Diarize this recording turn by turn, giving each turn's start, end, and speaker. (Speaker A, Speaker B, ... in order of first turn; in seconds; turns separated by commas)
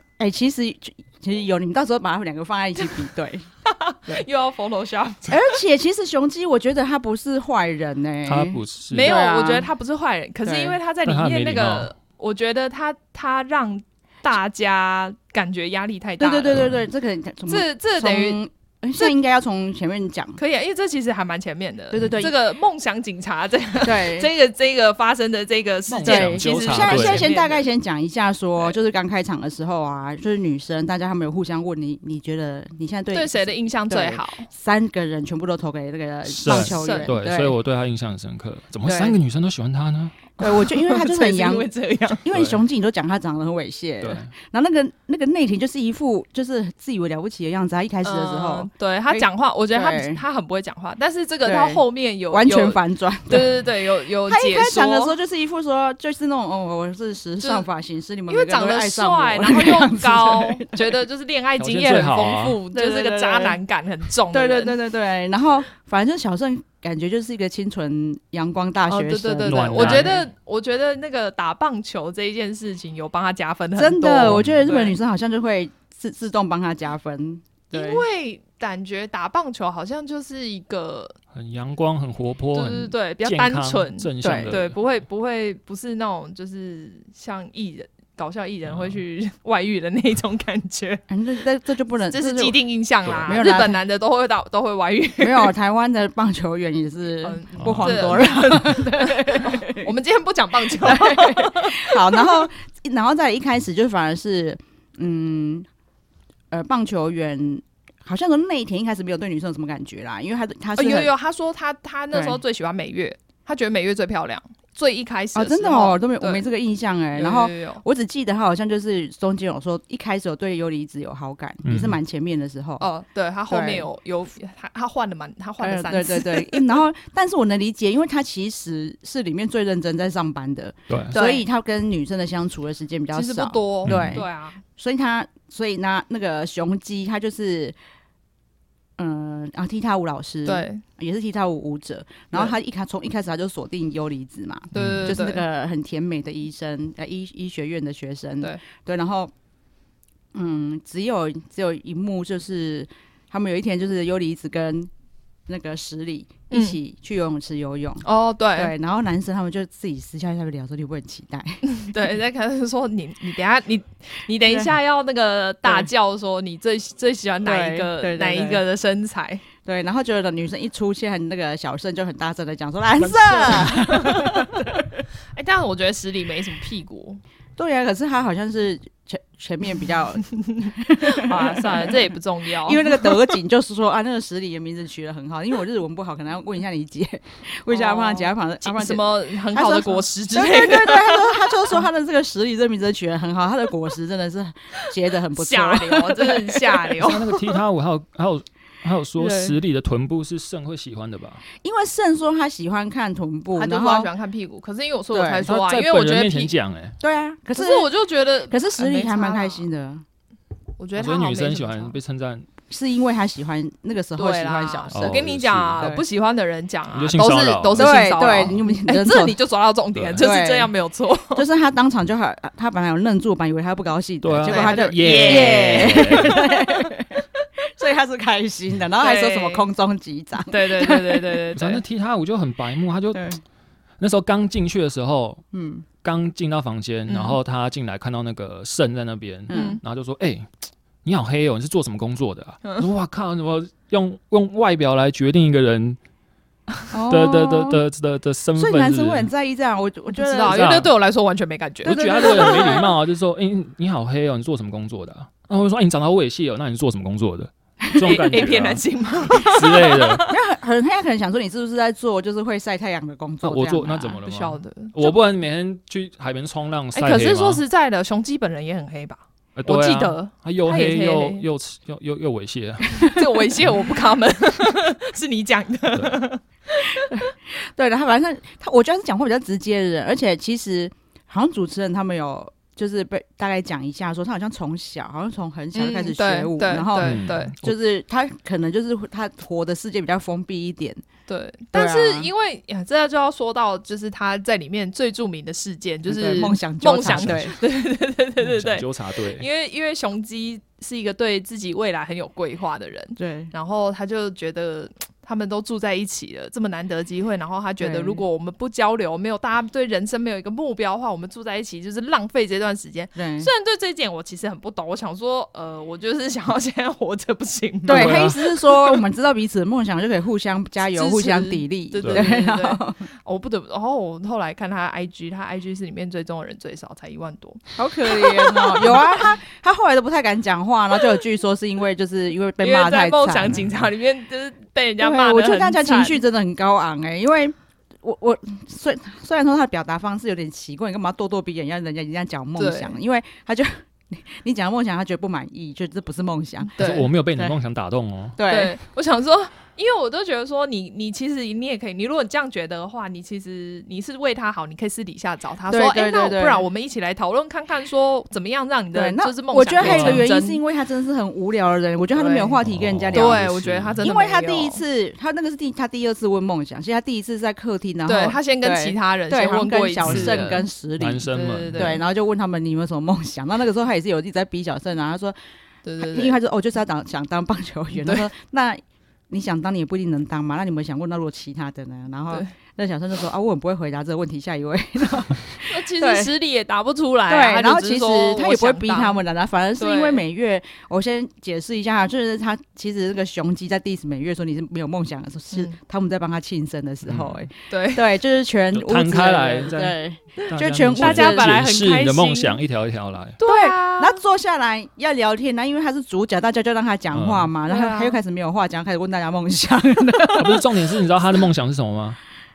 Speaker A: 0.2-3.5, Speaker B: 3.7-5.6, Speaker A: 5.3-9.7, Speaker C: 8.3-9.1, Speaker B: 8.9-16.7, Speaker A: 10.4-10.8, Speaker C: 11.1-11.9, Speaker A: 16.2-20.4, Speaker B: 17.5-18.4, Speaker B: 20.4-27.7, Speaker A: 21.9-22.4, Speaker A: 23.8-24.3, Speaker C: 25.9-27.3, Speaker A: 26.1-37.6, Speaker B: 33.1-34.5, Speaker C: 36.3-40.3, Speaker B: 36.5-37.1, Speaker A: 38.9-39.2, Speaker A: 40.4-41.7, Speaker B: 40.4-42.3, Speaker A: 42.2-50.2, Speaker C: 42.3-42.6, Speaker C: 44.0-44.3, Speaker B: 48.0-55.1, Speaker A: 51.4-53.6, Speaker A: 54.3-61.0, Speaker B: 58.3-64.8, Speaker C: 61.6-62.6, Speaker A: 62.7-63.6, Speaker A: 64.3-70.3, Speaker B: 68.9-75.0, Speaker C: 69.4-70.2, Speaker A: 73.8-78.0, Speaker C: 74.3-74.6, Speaker B: 77.7-81.2, Speaker C: 81.3-84.8, Speaker B: 82.5-91.0, Speaker A: 84.2-84.5, Speaker C: 88.7-89.0, Speaker A: 91.1-92.6, Speaker B: 92.1-95.5, Speaker C: 93.1-93.4, Speaker A: 93.3-93.8, Speaker A: 95.2-99.9, Speaker B: 97.2-102.5, Speaker C: 97.6-98.2, Speaker A: 100.7-105.7, Speaker A: 106.5-111.1, Speaker B: 110.8-116.5, Speaker A: 112.1-112.4, Speaker A: 115.3-122.8, Speaker B: 117.2-117.8, Speaker C: 121.7-122.0, Speaker B: 122.8-126.8, Speaker A: 123.5-123.9, Speaker A: 125.6-137.8, Speaker C: 130.9-131.2, Speaker B: 131.1-131.4, Speaker B: 133.1-134.6, Speaker C: 133.8-134.2, Speaker A: 139.0-149.3, Speaker B: 140.5-140.8, Speaker B: 144.7-145.4, Speaker C: 144.8-145.1, Speaker A: 150.3-154.9, Speaker A: 155.5-161.6, Speaker B: 156.5-156.8, Speaker B: 158.0-158.7, Speaker B: 161.6-169.4, Speaker A: 167.4-168.6, Speaker A: 169.6-174.9, Speaker B: 173.0-174.7, Speaker B: 175.3-177.2, Speaker A: 177.6-197.0, Speaker B: 180.5-183.3, Speaker B: 187.7-191.8, Speaker B: 195.3-197.5, Speaker C: 197.0-201.5, Speaker A: 199.2-199.6, Speaker A: 201.6-204.1, Speaker B: 203.5-206.5, Speaker A: 205.1-205.5, Speaker C: 205.5-207.0, Speaker A: 207.0-207.9, Speaker B: 207.6-209.7, Speaker A: 208.5-210.0, Speaker B: 210.8-212.0, Speaker C: 211.0-212.5, Speaker A: 212.7-216.0, Speaker B: 214.2-221.4, Speaker C: 214.9-215.8, Speaker C: 216.9-217.8, Speaker A: 217.8-219.4, Speaker C: 219.9-220.2, Speaker A: 220.2-220.7, Speaker A: 221.3-231.4, Speaker C: 224.2-226.4, Speaker B: 224.4-227.0, Speaker B: 229.0-229.6, Speaker B: 230.5-231.8, Speaker C: 231.6-233.3, Speaker A: 233.1-233.4, Speaker C: 234.0-235.4, Speaker A: 235.5-235.8, Speaker C: 236.0-240.5, Speaker B: 237.1-237.4, Speaker A: 239.5-239.8, Speaker B: 239.5-239.8, Speaker C: 241.1-246.0, Speaker A: 246.9-247.8, Speaker C: 247.1-249.3, Speaker A: 248.6-250.8, Speaker B: 250.2-252.9, Speaker C: 250.4-250.9, Speaker C: 251.8-260.2, Speaker A: 251.8-252.9, Speaker B: 258.0-260.3, Speaker A: 260.3-264.2, Speaker C: 263.4-267.6, Speaker B: 264.2-265.2, Speaker B: 266.9-271.4, Speaker C: 269.6-273.1, Speaker B: 273.0-277.1, Speaker A: 277.1-291.0, Speaker B: 285.7-287.6, Speaker C: 287.0-287.8, Speaker B: 291.3-319.0, Speaker A: 291.7-292.3, Speaker A: 296.1-297.5, Speaker C: 297.1-297.5, Speaker C: 298.4-299.5, Speaker A: 303.2-303.5, Speaker A: 307.8-308.2, Speaker A: 313.2-313.5, Speaker C: 317.9-318.4, Speaker A: 317.9-323.0, Speaker B: 320.9-329.3, Speaker A: 327.8-333.7, Speaker B: 332.6-336.2, Speaker A: 335.0-346.7, Speaker B: 342.6-342.9, Speaker B: 346.8-347.1, Speaker C: 346.8-348.4, Speaker A: 348.4-348.8, Speaker B: 348.5-360.6, Speaker A: 355.7-356.7, Speaker A: 358.9-363.4, Speaker C: 359.8-360.2, Speaker B: 362.1-362.6, Speaker C: 362.6-364.0, Speaker B: 363.1-364.8, Speaker A: 364.0-375.4, Speaker B: 368.1-370.7, Speaker C: 370.1-370.4, Speaker C: 371.0-371.9, Speaker B: 371.3-372.0, Speaker B: 375.8-376.4, Speaker A: 376.0-386.3, Speaker B: 378.0-378.3, Speaker B: 385.7-389.2, Speaker A: 387.3-401.5, Speaker B: 389.8-390.2, Speaker B: 395.5-395.8, Speaker C: 397.0-397.4, Speaker B: 397.7-398.1, Speaker C: 398.7-403.4, Speaker B: 400.4-402.6, Speaker B: 403.4-404.2, Speaker A: 403.4-410.7, Speaker C: 407.1-407.5, Speaker B: 407.7-408.2, Speaker C: 410.4-412.2